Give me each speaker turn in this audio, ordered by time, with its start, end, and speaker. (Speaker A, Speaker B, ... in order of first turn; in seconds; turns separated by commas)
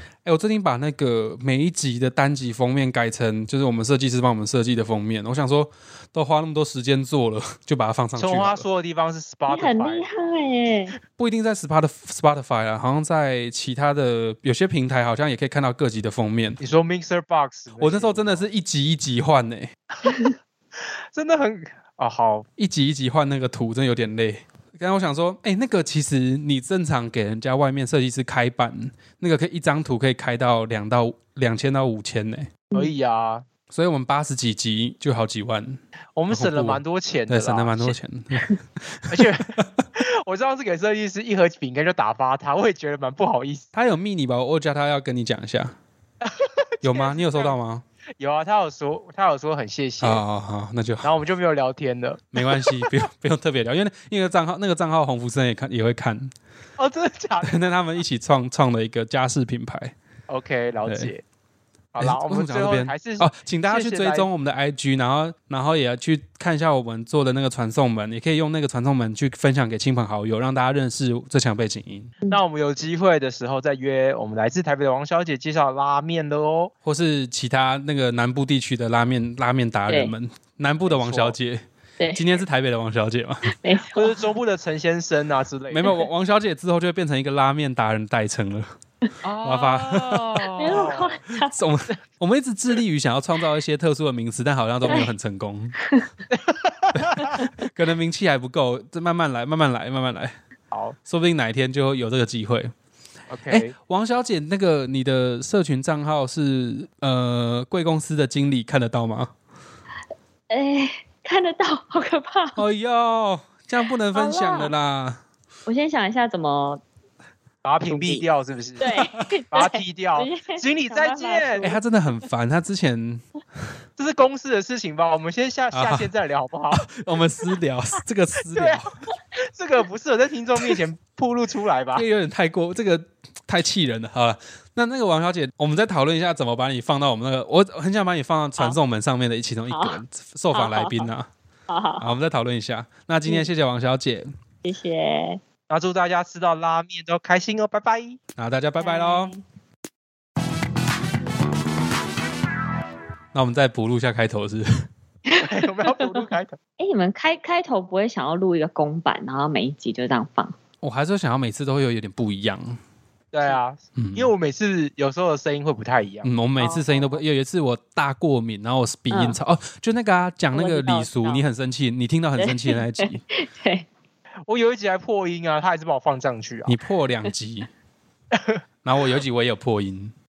Speaker A: 0.2-8.6, Speaker B: 8.2-10.1, Speaker C: 9.5-10.9, Speaker A: 11.2-16.6, Speaker B: 16.6-18.4, Speaker A: 17.8-19.7, Speaker C: 20.0-20.3, Speaker B: 21.1-22.4, Speaker A: 22.6-32.5, Speaker B: 32.7-33.4, Speaker A: 33.7-35.8, Speaker B: 36.1-38.0, Speaker A: 36.3-39.8, Speaker B: 39.1-39.5, Speaker B: 40.2-43.7, Speaker A: 43.7-45.8, Speaker B: 46.2-47.5, Speaker A: 46.8-47.8, Speaker B: 48.2-50.2, Speaker A: 50.0-51.1, Speaker B: 51.0-52.9, Speaker A: 52.3-56.3, Speaker B: 56.8-57.7, Speaker A: 57.4-59.9, Speaker B: 60.3-61.2, Speaker A: 60.9-61.1, Speaker B: 61.9-64.3, Speaker A: 62.0-72.1, Speaker B: 72.3-76.7, Speaker A: 76.8-81.6, Speaker C: 79.9-80.1, Speaker B: 80.8-81.4, Speaker C: 82.0-82.4, Speaker A: 82.1-83.5, Speaker C: 83.5-84.2, Speaker B: 83.9-85.9, Speaker A: 85.7-88.7, Speaker B: 89.2-91.1, Speaker A: 89.4-95.8, Speaker C: 90.6-91.5, Speaker B: 96.3-97.4, Speaker A: 96.9-100.3, Speaker B: 100.7-101.0, Speaker A: 101.0-102.7, Speaker B: 103.3-103.7, Speaker A: 103.5-109.3, Speaker C: 110.5-112.6, Speaker A: 112.5-115.2, Speaker C: 114.1-114.7, Speaker C: 115.7-116.8, Speaker B: 117.6-118.9, Speaker C: 117.9-118.3, Speaker C: 118.8-121.8, Speaker B: 119.5-121.7, Speaker A: 121.6-123.2, Speaker B: 124.0-126.8, Speaker A: 125.7-126.1, Speaker A: 126.7-128.9, Speaker B: 128.6-128.8, Speaker B: 129.4-132.1, Speaker A: 131.9-141.3, Speaker C: 139.7-141.1, Speaker C: 141.7-142.2, Speaker A: 142.0-144.3, Speaker C: 143.2-143.5, Speaker C: 144.6-145.4, Speaker B: 145.7-148.2, Speaker A: 148.4-149.3, Speaker C: 148.8-149.4, Speaker A: 153.3-154.9, Speaker B: 155.4-156.6, Speaker C: 156.8-160.5, Speaker A: 160.8-162.8, Speaker B: 163.3-166.3, Speaker A: 163.9-164.3, Speaker A: 166.2-173.2, Speaker C: 166.6-167.2, Speaker C: 169.1-169.4, Speaker C: 170.5-171.4, Speaker C: 172.4-173.8, Speaker B: 174.5-176.8, Speaker A: 176.7-177.7, Speaker B: 178.3-178.6, Speaker A: 178.8-180.1